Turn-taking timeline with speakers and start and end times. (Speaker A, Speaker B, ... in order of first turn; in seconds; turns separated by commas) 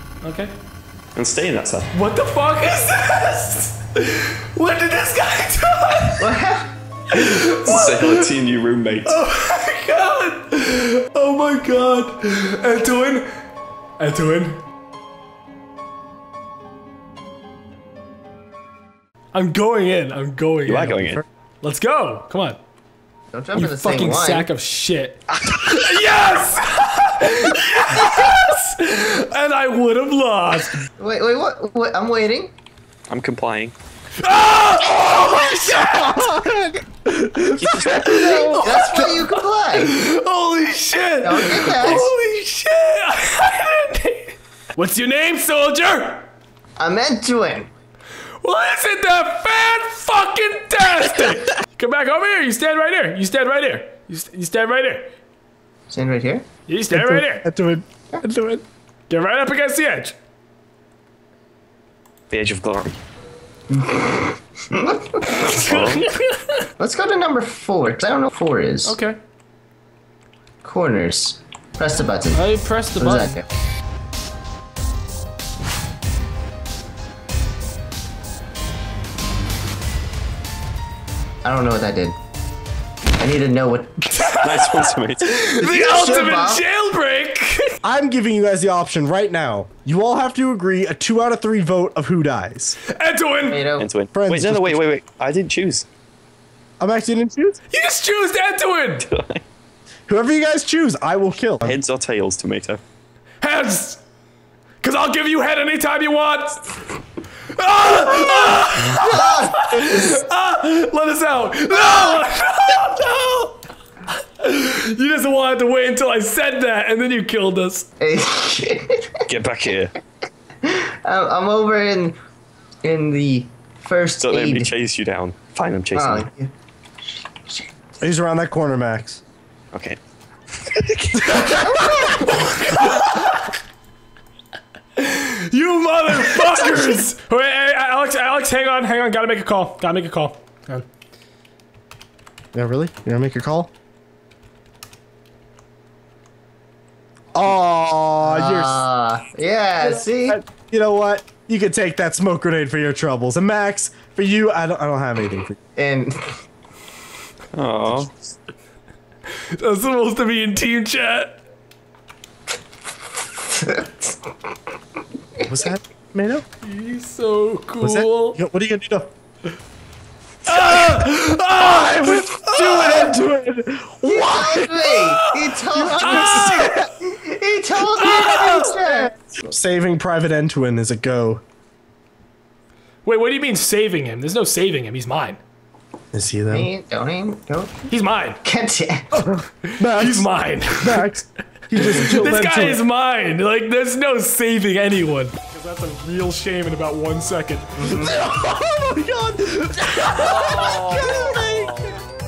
Speaker A: 0.2-0.5, Speaker B: 1.1-1.9, Speaker A: 1.9-6.3, Speaker C: 6.2-6.7, Speaker A: 7.1-8.3, Speaker B: 7.1-9.2, Speaker A: 9.1-13.3, Speaker A: 14.0-14.6, Speaker A: 19.3-22.6, Speaker B: 20.7-21.2, Speaker C: 23.3-24.5, Speaker A: 23.6-30.8, Speaker C: 30.9-32.5, Speaker B: 33.1-33.7, Speaker A: 34.2-36.4, Speaker D: 35.4-36.8, Speaker A: 37.0-46.2, Speaker B: 37.6-38.1, Speaker C: 37.9-40.0, Speaker C: 41.2-42.1, Speaker C: 46.8-47.7, Speaker A: 48.4-55.1, Speaker C: 55.9-56.5, Speaker A: 56.7-57.5, Speaker D: 56.9-57.8, Speaker A: 58.2-60.1, Speaker B: 62.3-63.0, Speaker C: 63.7-65.5, Speaker A: 65.2-66.6, Speaker B: 65.4-66.1, Speaker C: 66.8-69.0, Speaker A: 68.8-69.2, Speaker C: 70.6-72.4, Speaker A: 72.3-73.4, Speaker C: 73.0-73.5, Speaker C: 81.4-82.2, Speaker C: 83.2-84.4, Speaker A: 84.1-87.6, Speaker B: 84.4-85.3, Speaker C: 85.5-86.6, Speaker D: 87.8-92.8, Speaker A: 92.9-93.7, Speaker C: 93.5-93.9, Speaker B: 93.8-95.8, Speaker D: 94.1-94.8, Speaker D: 96.8-97.6, Speaker A: 97.7-99.1, Speaker B: 99.0-99.4, Speaker D: 100.1-101.8, Speaker B: 101.6-102.8, Speaker A: 103.4-104.0, Speaker A: 104.8-106.8, Speaker A: 107.6-117.8, Speaker C: 108.6-110.1, Speaker C: 118.0-119.2, Speaker B: 119.3-119.9, Speaker C: 120.6-122.2, Speaker C: 122.8-124.7, Speaker B: 124.2-126.3, Speaker C: 125.9-126.5, Speaker C: 127.2-127.7, Speaker D: 128.0-129.2, Speaker B: 129.7-130.0, Speaker B: 130.6-131.3, Speaker A: 131.3-133.4, Speaker C: 131.5-132.3, Speaker A: 135.0-140.8, Speaker D: 142.5-143.7, Speaker D: 147.3-148.8, Speaker C: 148.2-150.4, Speaker D: 149.8-155.6, Speaker C: 155.8-156.3, Speaker B: 157.5-158.2, Speaker A: 159.5-161.4, Speaker C: 163.5-164.1, Speaker D: 165.5-166.4, Speaker A: 166.6-168.4, Speaker D: 167.8-169.1, Speaker A: 170.4-173.2, Speaker D: 170.5-171.0, Speaker D: 171.6-174.9, Speaker C: 174.0-179.2, Speaker A: 174.9-175.3, Speaker D: 175.7-176.8, Speaker A: 175.8-176.9, Speaker A: 177.8-178.7, Speaker D: 178.9-181.4, Speaker A: 183.0-185.4, Speaker D: 186.1-186.7, Speaker C: 186.5-187.8, Speaker A: 187.9-188.4, Speaker C: 188.4-189.2, Speaker D: 189.1-192.8, Speaker A: 189.6-191.1, Speaker A: 191.8-198.2, Speaker D: 197.8-202.0, Speaker A: 200.0-201.3, Speaker B: 200.3-201.0